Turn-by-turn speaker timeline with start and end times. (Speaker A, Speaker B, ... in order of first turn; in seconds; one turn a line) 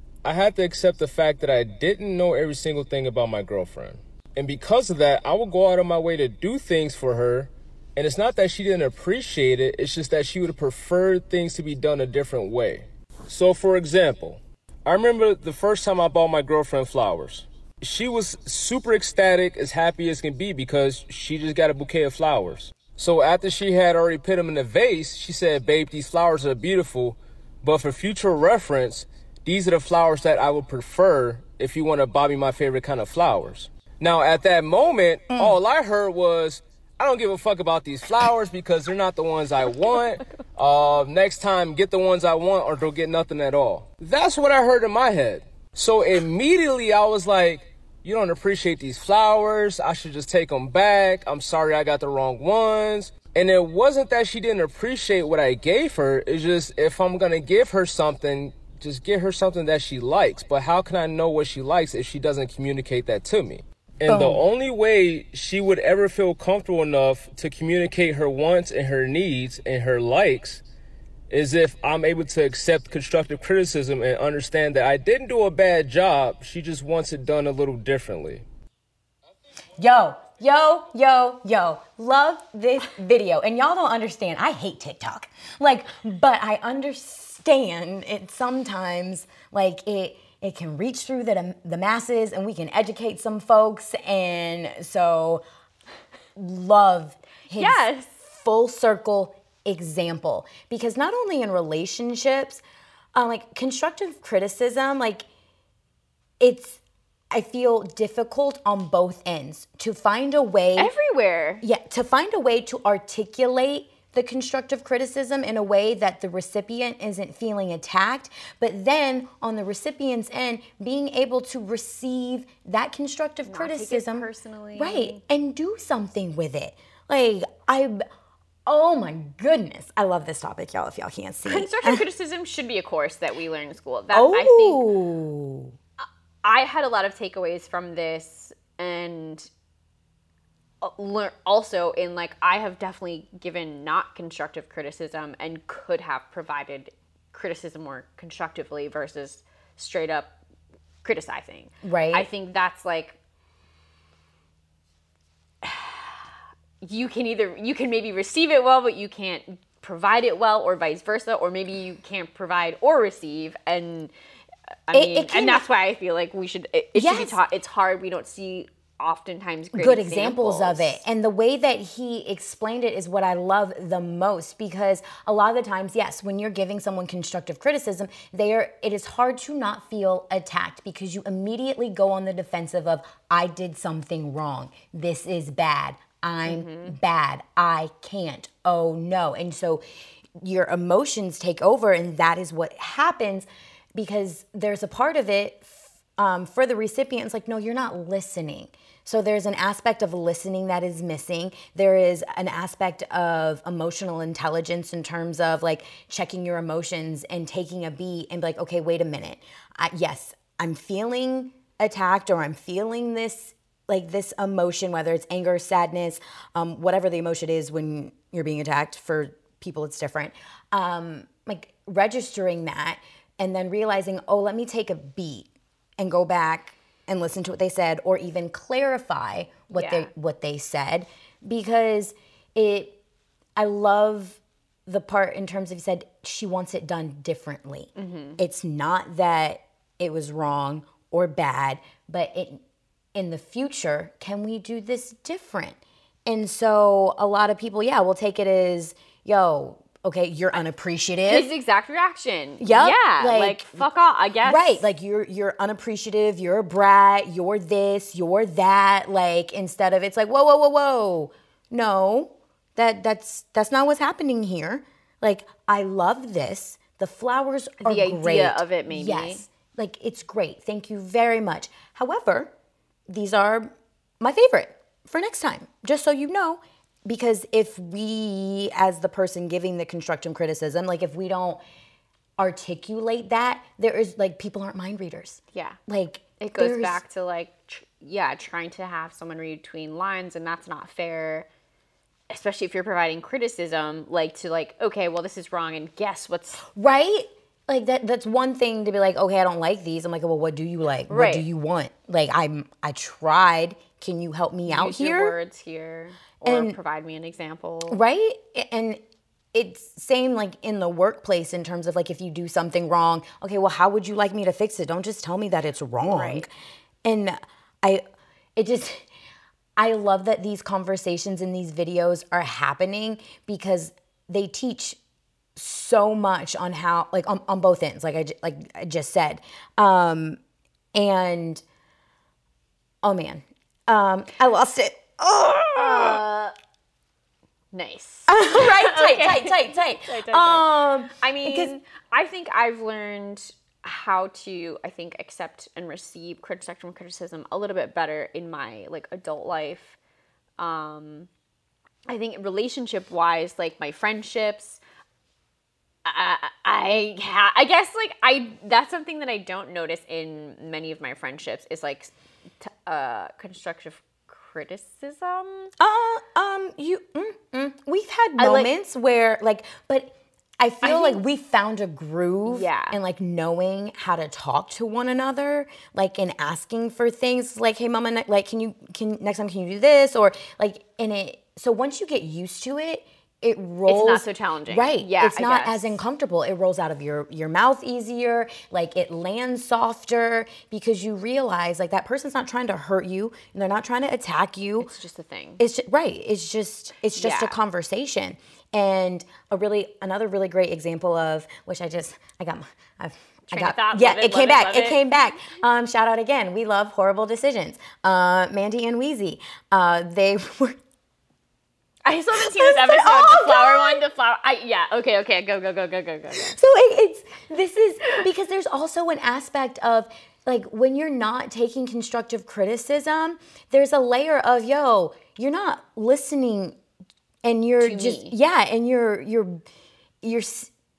Speaker A: 0.2-70.6
Speaker B: 64.1-64.4
Speaker A: 71.3-78.5
Speaker B: 79.8-95.4
Speaker B: 96.4-102.6
Speaker C: 97.6-98.2
Speaker B: 103.2-105.3
Speaker B: 106.4-106.8
Speaker B: 107.3-110.9
Speaker C: 110.8-111.6
Speaker B: 111.6-128.0
Speaker C: 123.5-125.2
Speaker B: 128.7-132.0
Speaker C: 131.5-134.9
Speaker B: 134.1-135.8
Speaker C: 136.0-139.5
Speaker C: 140.8-150.4
Speaker C: 151.0-153.2
Speaker B: 151.8-152.3
Speaker C: 155.6-156.2
Speaker C: 156.8-164.1
Speaker C: 164.9-171.0
Speaker B: 164.9-165.6
Speaker B: 166.9-167.4
Speaker B: 169.7-189.8
Speaker C: 186.4-186.9
Speaker B: 190.4-233.0
Speaker C: 229.7-230.1
Speaker B: 233.6-242.6
Speaker C: 238.0-238.4
Speaker B: 243.2-251.5
Speaker C: 251.3-254.8
Speaker B: 252.6-253.9
Speaker B: 254.4-272.5
Speaker C: 267.8-269.4
Speaker B: 273.1-281.6
Speaker B: 282.4-287.0
Speaker C: 286.4-291.5
Speaker C: 292.3-296.6
Speaker B: 296.7-305.4
Speaker C: 301.1-301.4
Speaker C: 304.7-308.0
Speaker B: 306.4-306.8
Speaker B: 307.9-309.0
Speaker B: 309.5-316.5
Speaker C: 316.1-316.4
Speaker B: 317.1-318.0
Speaker B: 318.6-319.1
Speaker B: 319.8-325.0
Speaker B: 325.6-330.4
Speaker B: 330.9-331.6
Speaker B: 333.0-336.2
Speaker C: 335.8-336.5
Speaker C: 337.7-350.0
Speaker B: 338.3-341.7
Speaker C: 350.6-351.3
Speaker C: 352.1-354.8
Speaker C: 356.1-365.7
Speaker B: 365.8-394.9
Speaker C: 368.4-368.7
Speaker C: 370.8-371.2
Speaker C: 372.5-373.0
Speaker C: 383.9-386.0
Speaker C: 394.8-395.6
Speaker B: 395.6-410.8
Speaker C: 397.2-397.6
Speaker C: 403.5-405.0
Speaker C: 412.1-416.6
Speaker B: 412.3-414.0
Speaker B: 416.4-426.8
Speaker B: 427.4-429.6
Speaker C: 427.8-428.3
Speaker B: 430.2-430.7